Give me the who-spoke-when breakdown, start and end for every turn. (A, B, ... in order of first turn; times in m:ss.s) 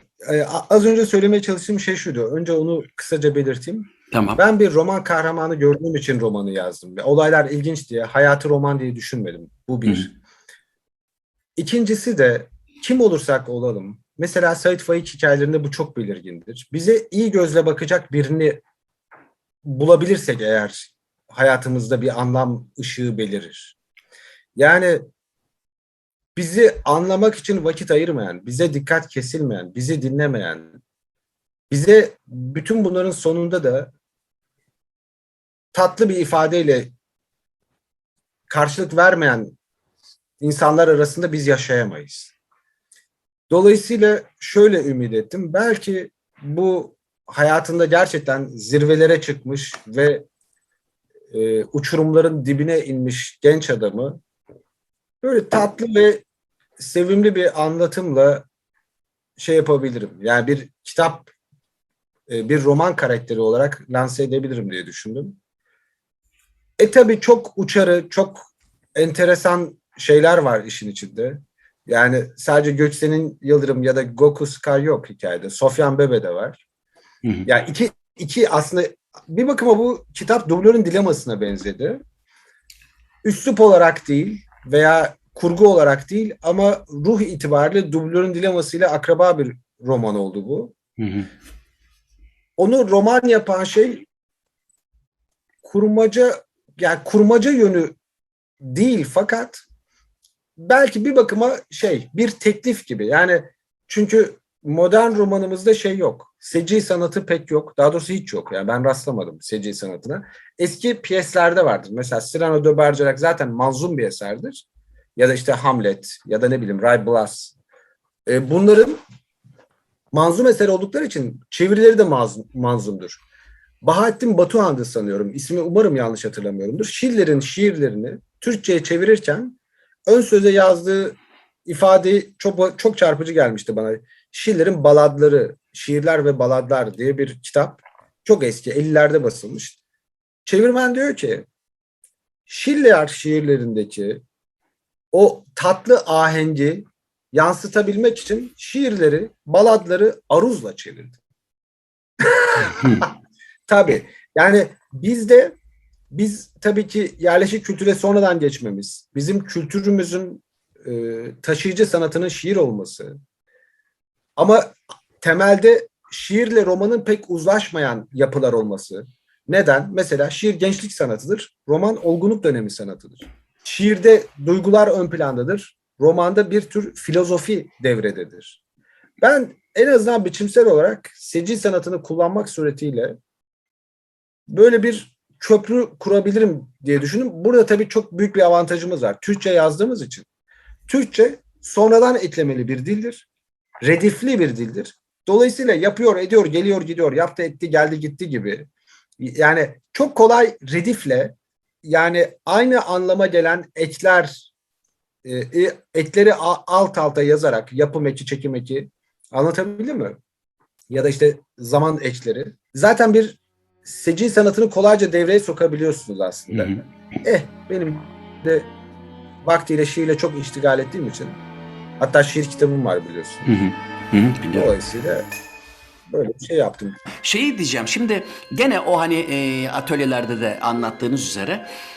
0:00.2-0:10.1 A
0:04.1-0:04.4 B
0:11.6-0:18.6 A
0:19.6-0:23.8 A
0:24.6-0:25.1 A
0:26.4-0:30.8 A
0:31.7-0:33.9 A
0:35.7-0:36.9 A
0:38.5-0:39.6 A
0:40.4-0:42.3 A
0:43.5-0:50.3 A
0:51.3-0:54.2 A
0:55.2-0:56.2 A
0:56.8-0:58.5 A
0:59.4-1:01.3 A
1:02.3-1:05.4 A
1:06.8-1:16.6 A
1:17.5-1:22.0 A
1:23.2-1:30.7 A
1:31.0-1:31.3 B
1:32.6-1:34.1 A
1:35.6-1:38.0 A
1:38.6-1:39.6 A
1:40.6-1:54.6 A
1:55.2-1:57.5 A
1:58.3-1:59.0 A
2:00.1-2:03.2 A
2:03.8-2:19.8 A
2:20.5-2:21.5 A
2:22.5-2:24.2 A
2:25.1-2:31.2 A
2:32.2-2:33.1 A
2:32.6-2:33.0 B
2:33.7-2:35.6 A
2:36.1-2:43.2 A
2:44.4-2:58.6 A
2:59.2-3:03.2 A
3:04.5-3:10.3 A
3:10.9-3:13.3 A
3:13.8-3:18.7 A
3:19.2-3:24.5 A
3:25.2-3:30.2 A
3:30.9-3:38.7 A
3:36.5-3:36.8 B
3:39.4-3:41.4 A
3:42.0-3:43.5 A
3:43.5-3:44.7 B
3:44.5-3:45.3 A
3:46.1-3:47.0 A
3:47.2-3:51.7 B